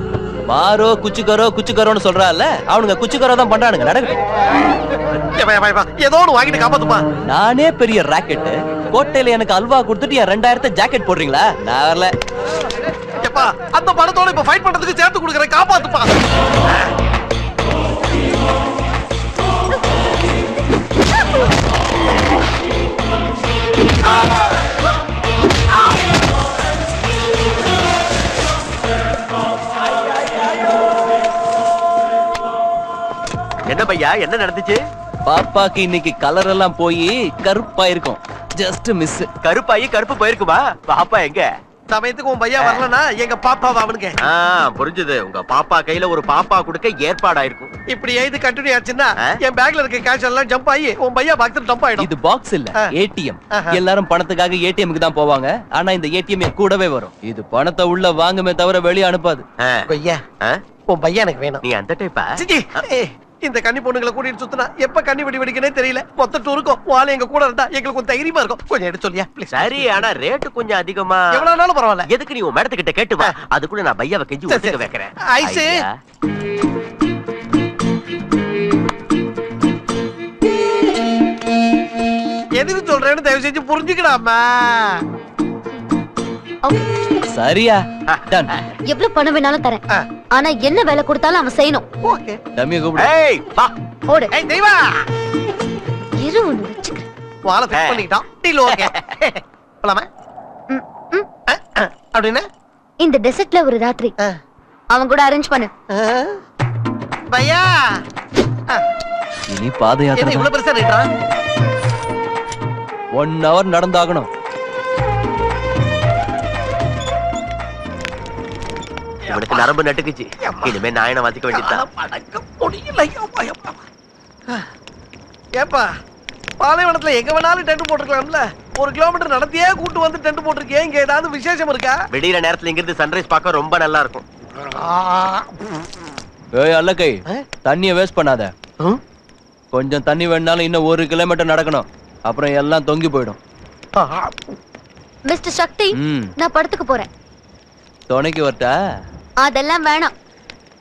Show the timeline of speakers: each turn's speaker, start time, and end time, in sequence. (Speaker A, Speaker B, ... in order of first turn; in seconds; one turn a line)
Speaker A: 0.5-4.2
Speaker B: 5.3-7.0
Speaker A: 7.3-12.1
Speaker B: 13.2-16.1
Speaker C: 33.7-34.8
Speaker A: 35.2-39.3
Speaker C: 39.4-41.5
Speaker B: 41.9-44.2
Speaker C: 42.6-42.9
Speaker C: 44.2-47.7
Speaker B: 47.9-52.1
Speaker A: 52.0-59.4
Speaker C: 59.6-59.9
Speaker B: 59.9-60.2
Speaker B: 60.9-61.6
Speaker C: 61.6-62.4
Speaker B: 62.4-70.1
Speaker C: 69.5-71.5
Speaker B: 71.3-72.1
Speaker C: 72.0-75.9
Speaker B: 74.5-75.8
Speaker B: 82.5-85.0
Speaker A: 87.3-88.5
Speaker D: 88.9-89.8
Speaker D: 90.3-91.8
Speaker B: 92.0-92.4
Speaker A: 92.6-93.1
Speaker C: 93.0-93.7
Speaker D: 94.1-94.3
Speaker B: 94.3-94.8
Speaker D: 96.2-97.1
Speaker B: 97.5-100.1
Speaker C: 97.7-98.1
Speaker D: 100.7-101.3
Speaker B: 101.5-102.4
Speaker D: 103.0-104.1
Speaker D: 104.9-105.7
Speaker B: 105.9-106.3
Speaker B: 107.3-107.7
Speaker A: 109.5-110.5
Speaker B: 110.1-111.1
Speaker A: 113.2-114.3
Speaker C: 119.2-121.8
Speaker B: 119.3-119.8
Speaker B: 120.4-120.8
Speaker B: 121.5-123.8
Speaker B: 125.6-125.9
Speaker B: 126.6-132.0
Speaker C: 132.1-134.2
Speaker B: 134.8-135.5
Speaker A: 136.6-138.5
Speaker A: 139.7-143.4
Speaker B: 143.9-144.3
Speaker D: 145.2-147.1
Speaker A: 146.0-146.3
Speaker A: 148.1-148.7
Speaker D: 149.4-150.1